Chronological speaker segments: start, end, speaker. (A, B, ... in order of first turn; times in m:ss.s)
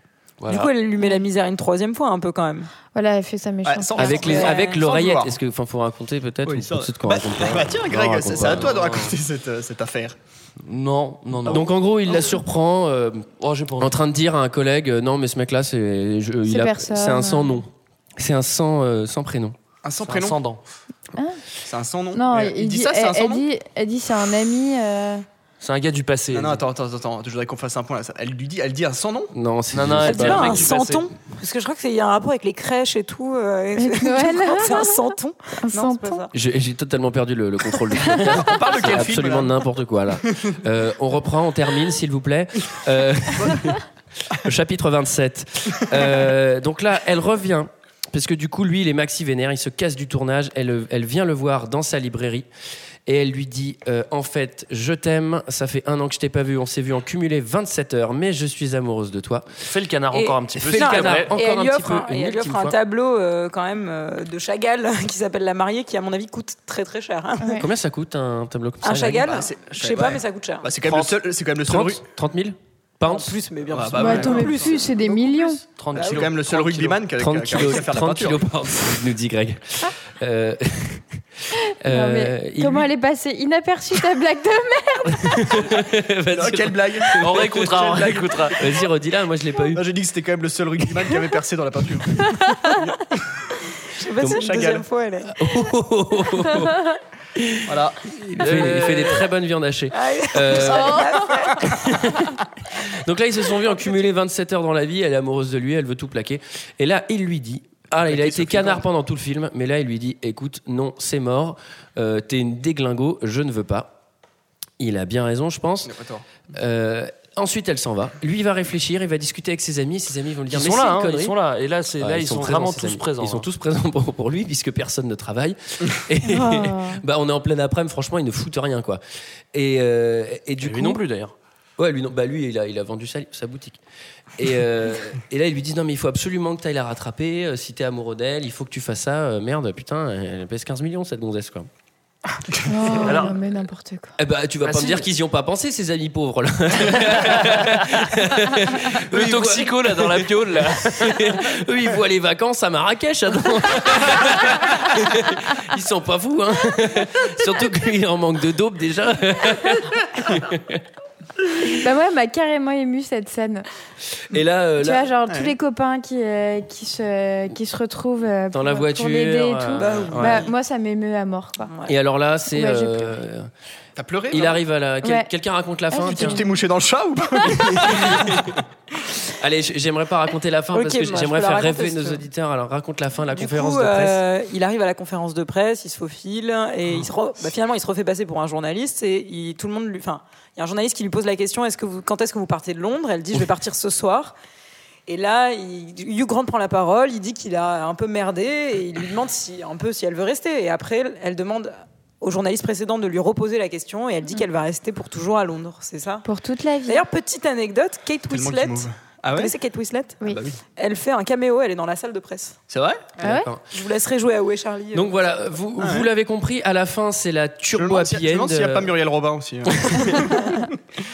0:00.4-0:00.7 A
0:00.5-0:02.7 B
0:02.9-0:04.3 C
0:03.6-0:05.3 D
0:04.0-0:08.7 E
0:04.1-0:04.8 B
0:06.4-0:10.2 D
0:08.4-0:09.1 A
0:10.6-0:11.6 A
0:11.4-0:12.2 D
0:11.5-0:13.3 E
0:13.4-0:13.9 A
0:13.8-0:19.6 E
0:16.4-0:17.6 C
0:19.8-0:20.4 D
0:20.0-0:20.6 A
0:21.6-0:23.4 D
0:22.1-0:25.2 C
0:25.6-0:26.6 A
0:26.3-0:29.3 D
0:29.3-0:30.7 E
0:29.7-0:31.0 A
0:30.0-0:36.3 B
0:33.8-0:36.2 C
0:36.3-0:43.8 E
0:38.2-0:39.6 D
0:44.4-0:52.5 E
0:53.0-0:59.5 E
0:59.6-1:01.3 A
1:00.1-1:07.6 B
1:00.5-1:02.8 E
1:07.6-1:09.4 E
1:08.8-1:10.7 B
1:09.1-1:12.0 D
1:10.8-1:11.2 A
1:11.6-1:13.4 E
1:13.0-1:16.3 B
1:13.7-1:14.8 D
1:14.0-1:15.6 C
1:15.8-1:17.7 A
1:15.9-1:18.4 D
1:17.2-1:21.0 E
1:21.8-1:22.9 E
1:21.9-1:25.6 C
1:25.1-1:29.8 E
1:26.3-1:28.6 D
1:27.2-1:28.6 A
1:29.7-1:32.9 D
1:33.9-1:35.3 B
1:34.2-1:34.8 D
1:35.3-1:36.8 E
1:37.4-1:41.1 E
1:37.7-1:38.0 D
1:38.4-1:39.2 A
1:39.9-1:41.6 B
1:40.7-1:41.1 C
1:41.7-1:42.2 E
1:42.9-1:53.9 E
1:48.0-1:48.8 D
1:54.8-1:55.9 E
1:55.8-1:56.2 D
1:56.5-2:01.3 E
2:00.5-2:03.5 A
2:02.0-2:09.0 E
2:06.2-2:07.0 C
2:09.5-2:11.0 E
2:10.6-2:11.3 A
2:11.8-2:13.8 E
2:14.4-2:21.7 E
2:22.6-2:24.1 C
2:23.0-2:23.3 A
2:24.2-2:40.8 E
2:24.6-2:25.1 A
2:27.4-2:27.6 A
2:29.1-2:31.4 A
2:41.6-2:43.6 C
2:44.3-2:45.1 E
2:44.8-2:51.7 C
2:45.3-2:45.5 D
2:48.5-2:50.4 E
2:49.8-2:50.5 B
2:51.6-2:51.9 B
2:51.9-2:53.5 E
2:52.5-2:53.1 C
2:54.0-2:54.6 D
2:54.3-2:56.4 E
2:55.0-2:55.3 C
2:55.9-2:56.4 C
2:56.0-2:58.6 D
2:57.5-2:58.5 E
2:59.4-3:04.2 E
3:00.7-3:02.2 B
3:03.3-3:14.3 B
3:15.1-3:26.2 B
3:26.2-3:27.0 C
3:26.8-3:30.2 B
3:28.3-3:29.5 D
3:30.2-3:30.6 D
3:30.8-3:32.6 B
3:32.7-3:33.2 D
3:33.2-3:33.5 C
3:33.2-3:33.6 E
3:33.7-3:35.1 B
3:34.9-3:39.0 E
3:35.8-3:36.1 D
3:37.7-3:40.7 D